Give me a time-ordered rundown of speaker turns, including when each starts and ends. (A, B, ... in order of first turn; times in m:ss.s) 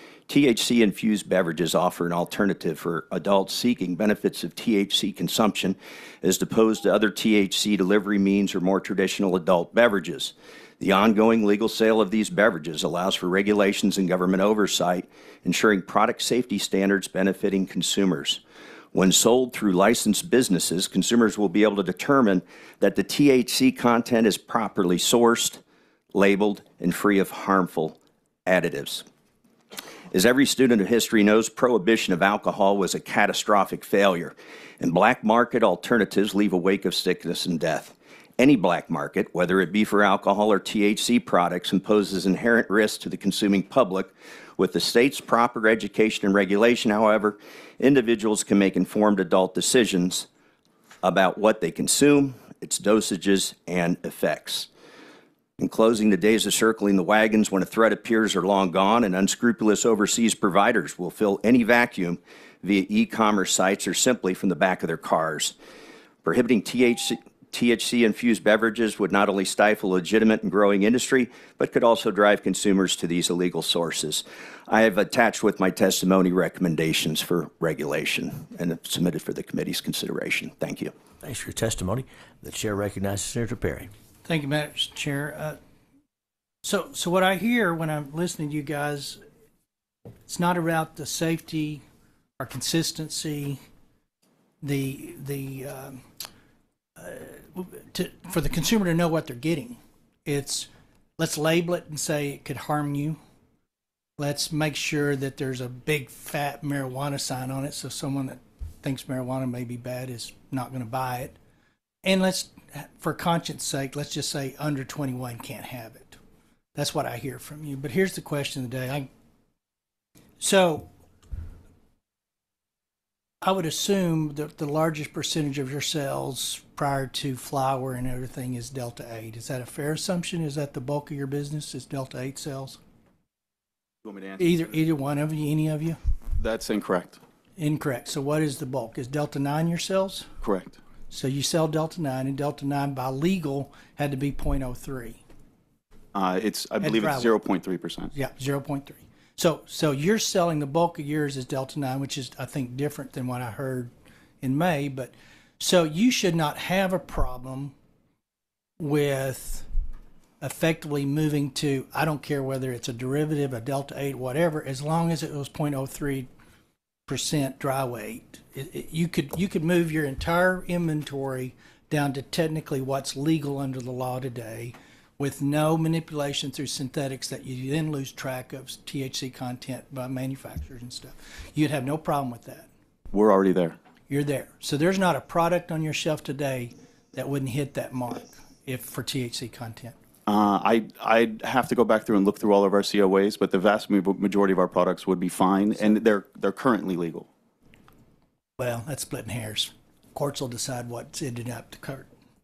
0:00.3-0:18.4 A
0:18.9-0:25.6 A
0:26.1-0:29.1 A
0:30.1-0:50.3 A
0:51.0-0:54.7 A
0:55.6-1:05.6 A
1:06.2-1:20.9 A
1:21.2-1:23.9 B
1:24.2-1:25.6 C
1:26.6-1:29.2 C
1:30.3-1:31.8 C
1:32.4-1:33.6 C
1:34.6-1:36.0 C
1:37.0-1:43.2 C
1:44.2-1:51.4 C
1:52.0-1:56.2 C
1:56.8-1:59.1 C
2:00.4-2:00.9 C
2:03.4-2:12.8 C
2:14.0-2:14.7 D
2:14.4-2:16.0 C
2:16.4-2:17.2 D
2:17.6-2:20.3 C
2:20.4-2:20.8 D
2:21.1-2:25.2 C
2:26.1-2:28.1 D
2:26.8-2:27.3 C
2:28.1-2:33.9 C
2:34.4-2:37.7 C
2:38.8-2:39.7 C
2:40.4-2:46.3 C
2:47.1-3:02.7 C
3:03.1-3:03.8 D
3:04.1-3:10.0 C
3:10.3-3:17.3 D
3:18.6-3:22.1 C